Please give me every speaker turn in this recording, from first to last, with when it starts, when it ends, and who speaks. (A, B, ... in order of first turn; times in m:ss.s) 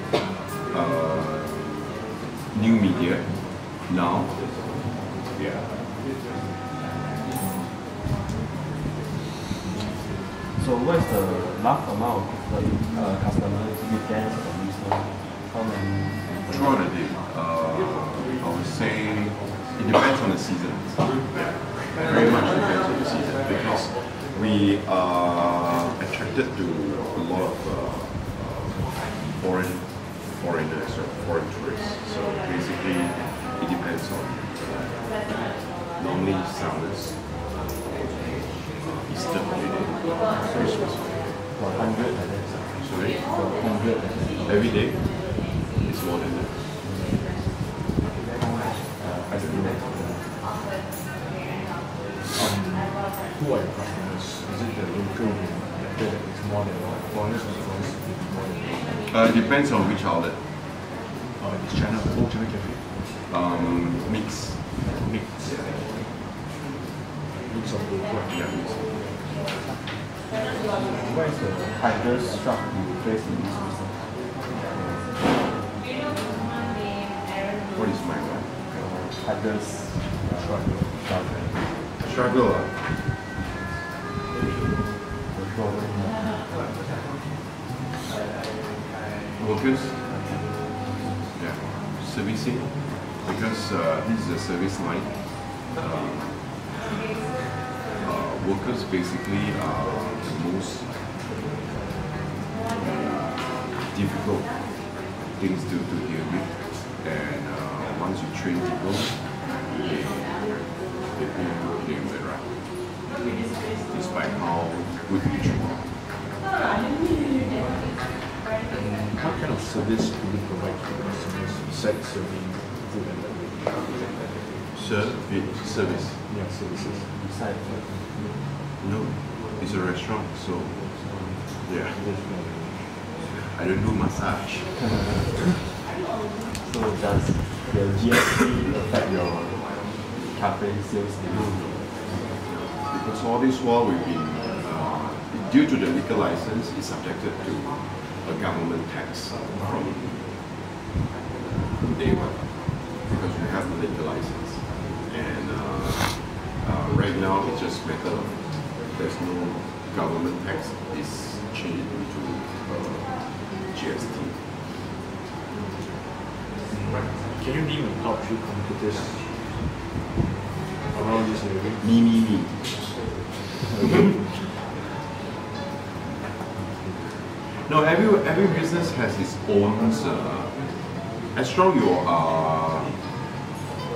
0:00.7-0:04.4 A
0:05.3-0:05.7 A
0:10.5-0:16.4 B
0:16.4-0:42.0 A
0:40.4-0:44.9 B
0:42.7-0:43.2 A
0:44.4-0:46.6 A
0:46.8-0:47.2 B
0:48.3-0:50.3 B
0:49.3-0:49.8 A
0:52.3-0:59.0 C
0:59.1-1:00.4 A
1:01.4-1:03.0 C
1:03.3-1:04.7 A
1:04.9-1:05.8 C
1:07.3-1:08.4 C
1:08.3-1:09.2 A
1:10.8-1:15.6 B
1:17.7-1:19.0 A
1:18.7-1:21.9 B
1:20.4-1:20.9 C
1:22.0-1:22.9 A
1:25.2-1:26.5 B
1:29.4-1:30.1 A
1:30.3-1:31.2 B
1:31.3-1:36.8 A
1:38.0-1:41.1 A
1:42.7-1:52.9 A
1:53.8-1:56.0 A
1:58.7-2:04.1 C
2:04.7-2:06.3 A
2:06.2-2:07.1 C
2:06.7-2:08.3 B
2:08.8-2:11.0 A
2:10.8-2:11.6 B
2:11.6-2:12.0 A
2:12.0-2:12.9 C
2:13.2-2:14.7 A
2:14.7-2:15.7 B
2:16.6-2:21.9 B
2:21.3-2:22.0 A
2:22.8-2:30.2 A
2:31.8-2:44.4 A
2:46.7-2:49.6 C
2:50.9-2:51.9 C
2:51.8-2:52.7 A
2:53.6-2:54.5 C
2:53.8-2:54.2 A
2:56.5-2:57.0 C
2:57.4-3:03.0 A